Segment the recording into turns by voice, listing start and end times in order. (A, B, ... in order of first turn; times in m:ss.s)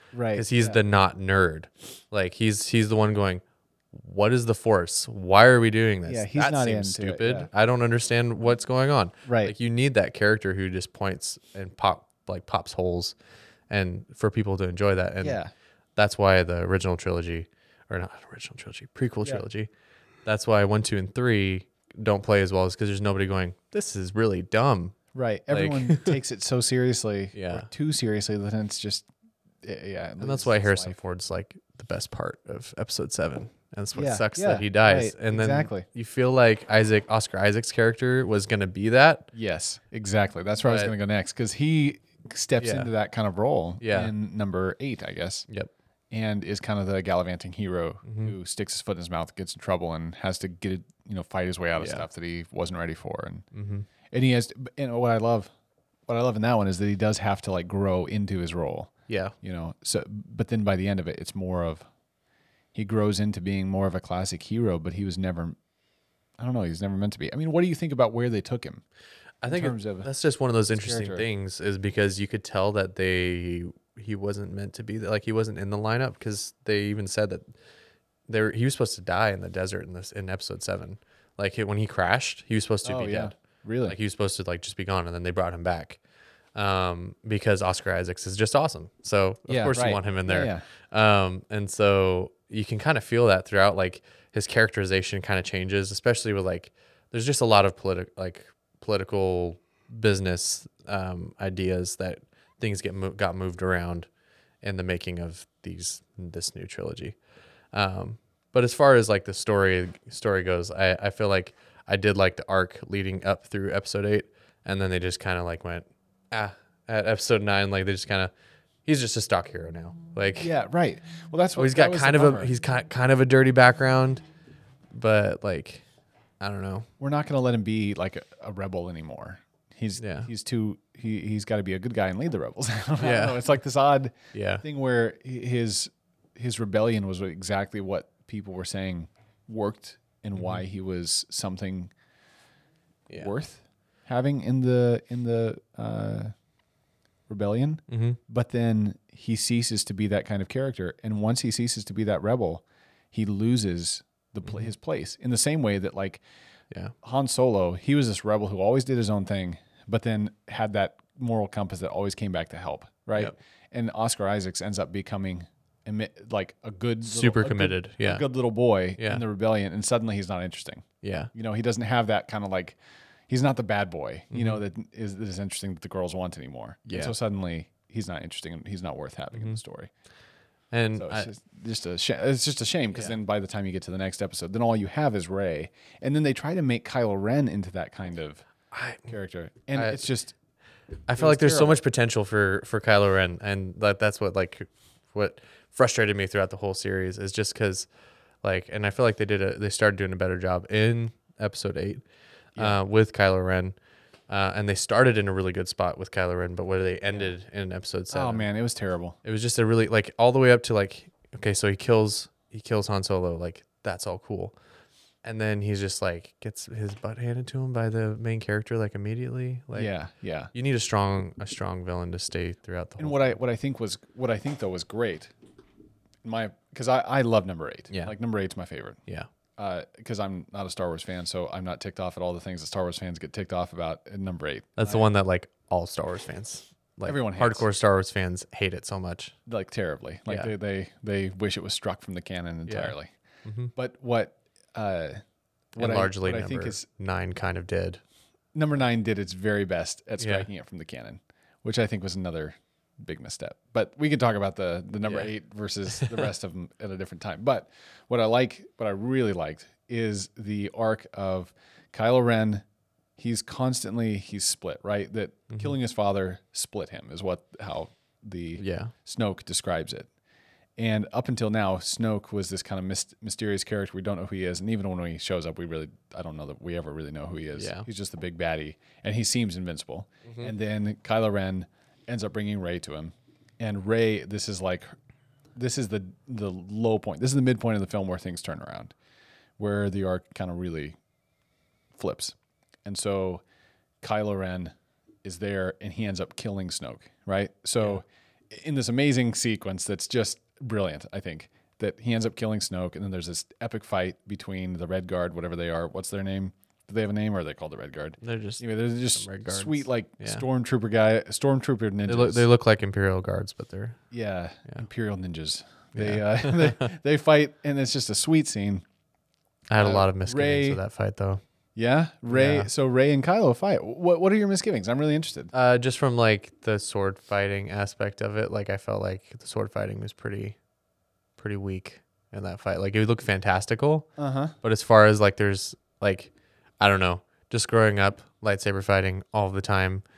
0:00.1-0:00.8 A
0:00.3-0:13.1 B
0:06.0-0:07.5 A
0:09.2-0:09.5 A
0:13.7-0:15.4 B
0:15.2-0:15.5 A
0:16.0-0:19.7 B
0:20.2-0:25.0 B
0:25.1-0:29.1 A
0:25.5-0:26.2 B
0:27.3-0:27.7 B
0:29.6-0:31.0 A
0:30.2-0:39.3 B
0:33.9-0:35.8 A
0:39.3-0:45.4 A
0:40.6-0:40.9 B
0:42.6-0:42.9 B
0:43.8-0:44.1 B
0:46.1-0:53.4 A
0:48.0-0:48.3 B
0:51.8-0:52.1 B
0:53.5-0:53.9 B
0:54.1-0:55.5 A
0:56.1-1:01.9 A
0:59.1-0:59.3 B
1:02.7-1:05.6 A
1:06.4-1:08.8 A
1:09.4-1:17.4 B
1:09.4-1:10.1 A
1:10.7-1:11.2 A
1:18.3-1:23.3 B
1:22.8-1:24.0 A
1:23.8-1:26.0 B
1:26.5-1:44.1 B
1:29.5-1:30.6 A
1:44.6-1:47.2 B
1:47.7-1:58.3 B
1:58.8-2:00.5 B
2:00.4-2:02.5 A
2:01.6-2:04.2 B
2:04.9-2:05.8 B
2:06.4-2:06.9 B
2:07.0-2:21.9 A
2:10.0-2:10.3 B
2:13.0-2:13.6 B
2:14.3-2:14.6 B
2:20.4-2:20.6 B
2:23.1-2:26.3 A
2:27.3-2:36.2 A
2:27.9-2:28.2 B
2:37.0-2:52.8 A
2:47.0-2:48.3 B
2:49.0-2:49.2 B
2:51.0-2:51.3 B
2:53.3-2:59.9 A
2:54.3-2:54.6 B
2:56.8-2:57.1 B
2:59.3-2:59.6 B
3:00.7-3:01.3 B
3:00.9-3:08.5 A
3:08.7-3:09.1 B
3:09.1-3:10.3 A
3:09.7-3:10.1 B
3:11.1-3:17.9 B
3:11.2-3:11.8 A
3:18.4-3:22.0 B
3:22.6-3:23.8 B
3:24.3-3:28.5 B
3:28.1-3:29.2 A
3:29.2-3:34.6 B
3:35.2-3:39.9 B
3:39.7-3:40.5 A
3:40.5-3:43.4 B
3:43.0-3:45.3 A
3:46.2-3:49.0 A
3:49.6-3:55.1 A
3:54.8-3:59.4 B
3:57.0-3:57.6 A
3:59.5-4:03.1 A
4:02.7-4:03.7 B
4:03.7-4:05.2 A
4:05.7-4:06.9 A
4:05.8-4:08.0 B
4:08.5-4:22.6 A
4:10.2-4:10.5 B
4:15.0-4:15.3 B
4:16.0-4:16.2 B
4:23.2-4:30.1 A
4:28.6-4:28.9 B
4:30.8-4:44.9 A
4:37.6-4:37.9 B
4:40.2-4:40.5 B
4:45.6-4:48.9 A
4:49.6-4:51.0 A
4:52.0-4:53.4 A
4:54.0-5:12.4 A
5:08.2-5:10.4 B
5:12.0-5:14.0 B
5:14.1-5:18.8 A
5:15.9-5:16.9 B
5:19.7-5:21.4 B
5:19.8-5:20.8 A
5:21.8-5:25.5 A
5:22.3-5:22.7 B
5:25.5-5:30.6 B
5:31.4-5:34.1 B
5:34.2-5:34.5 A
5:34.6-5:40.0 B